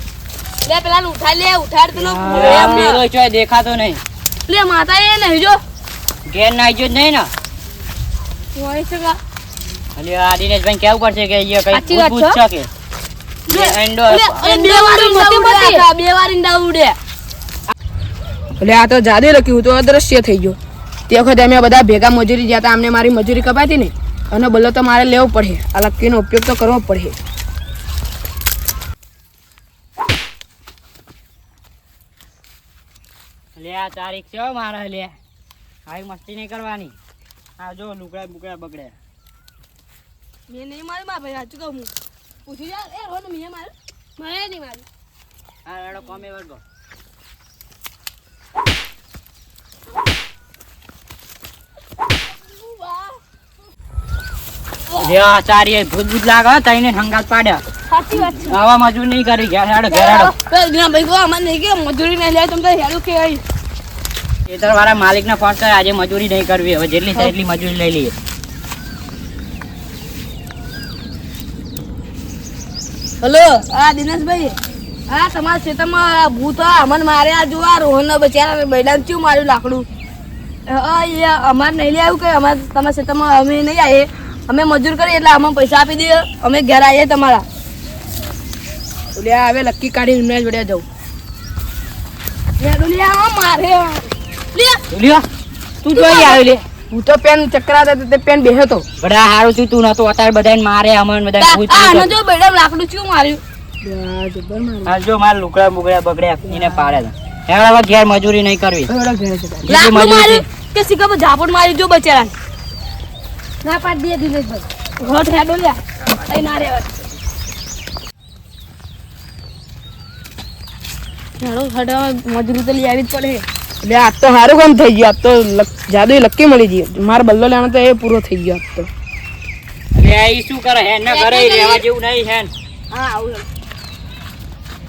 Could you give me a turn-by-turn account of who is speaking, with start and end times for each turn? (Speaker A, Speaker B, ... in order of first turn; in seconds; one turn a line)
Speaker A: 0.6-3.0
Speaker B: 1.9-2.8
Speaker C: 2.3-4.0
Speaker A: 4.5-5.6
Speaker C: 6.2-7.3
Speaker A: 8.5-9.2
Speaker C: 9.9-12.7
Speaker A: 11.7-12.4
Speaker A: 13.5-17.0
Speaker C: 13.5-14.8
Speaker B: 15.1-15.6
Speaker B: 18.6-20.6
Speaker B: 21.1-27.1
Speaker C: 33.5-35.1
Speaker C: 35.9-37.0
Speaker C: 37.6-38.9
Speaker A: 40.5-41.9
Speaker A: 42.5-44.9
Speaker C: 45.6-46.6
Speaker A: 52.5-53.2
Speaker C: 55.0-57.6
Speaker A: 57.9-58.6
Speaker C: 58.4-60.3
Speaker A: 59.9-63.4
Speaker C: 64.5-68.1
Speaker A: 73.2-74.6
Speaker A: 75.1-79.8
Speaker A: 80.7-87.4
Speaker B: 89.1-90.8
Speaker A: 92.6-94.8
Speaker C: 94.9-95.2
Speaker C: 95.8-96.6
Speaker A: 95.9-96.4
Speaker B: 96.9-98.8
Speaker C: 99.0-102.1
Speaker A: 101.4-103.4
Speaker B: 103.8-104.9
Speaker C: 104.8-108.9
Speaker B: 106.5-107.0
Speaker B: 108.9-109.8
Speaker C: 109.7-110.4
Speaker A: 109.7-112.3
Speaker A: 113.6-116.9
Speaker A: 121.4-123.5
Speaker B: 123.8-128.9
Speaker C: 129.9-132.5
Speaker A: 131.1-131.8
Speaker A: 132.9-133.4